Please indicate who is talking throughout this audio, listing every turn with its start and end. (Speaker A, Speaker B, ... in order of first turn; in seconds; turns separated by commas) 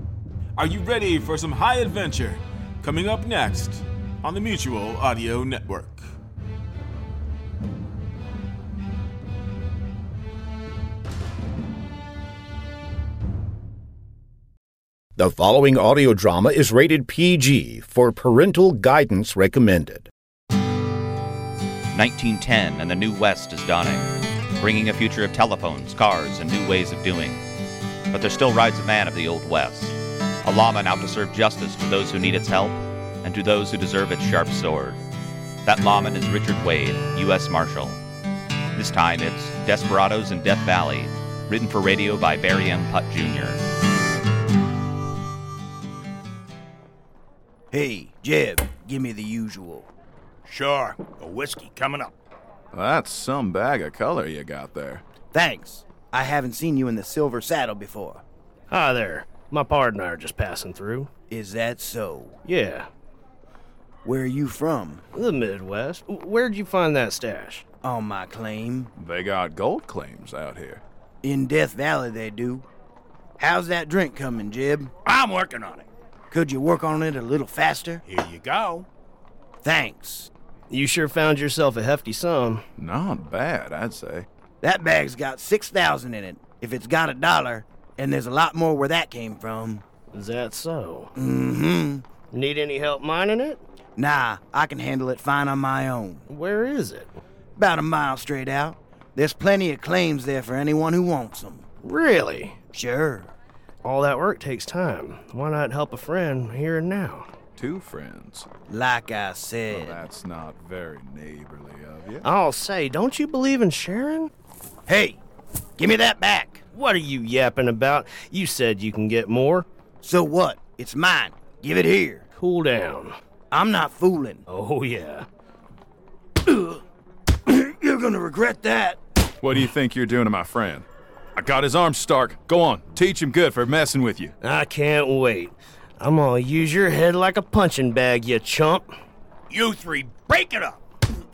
Speaker A: 0.6-6.1, Speaker B: 15.2-20.1, Speaker C: 21.9-27.4, Speaker C: 28.1-35.0, Speaker C: 35.6-38.0, Speaker C: 38.8-43.6, Speaker D: 47.7-49.9, Speaker E: 50.5-52.1, Speaker F: 52.7-55.0, Speaker D: 55.3-58.2, Speaker G: 58.7-61.1, Speaker D: 61.3-62.4, Speaker G: 62.5-62.9, Speaker D: 64.0-65.0, Speaker G: 65.1-67.7, Speaker D: 67.8-68.9, Speaker F: 69.0-70.8, Speaker D: 71.2-72.7, Speaker D: 73.4-74.9, Speaker E: 75.0-75.9, Speaker D: 76.3-78.0, Speaker E: 78.0-78.9, Speaker D: 79.6-80.3, Speaker G: 80.7-82.7, Speaker F: 82.8-84.3, Speaker D: 84.6-89.8, Speaker G: 90.1-91.1, Speaker D: 91.2-92.1, Speaker G: 92.3-93.6, Speaker D: 94.0-96.2, Speaker G: 96.3-97.2, Speaker D: 97.6-101.7, Speaker G: 101.8-102.6, Speaker D: 102.7-103.3, Speaker G: 103.8-107.3, Speaker F: 107.6-108.5, Speaker D: 108.7-110.0, Speaker F: 109.7-112.2, Speaker G: 112.2-114.3, Speaker D: 114.9-115.2, Speaker D: 115.8-116.6, Speaker G: 116.7-119.7, Speaker D: 120.0-122.2, Speaker G: 122.4-123.2, Speaker D: 123.5-124.4, Speaker G: 124.5-125.3, Speaker D: 126.5-126.8, Speaker D: 127.5-129.0, Speaker F: 129.4-130.8, Speaker F: 131.4-134.3, Speaker G: 134.4-138.9, Speaker E: 139.5-140.8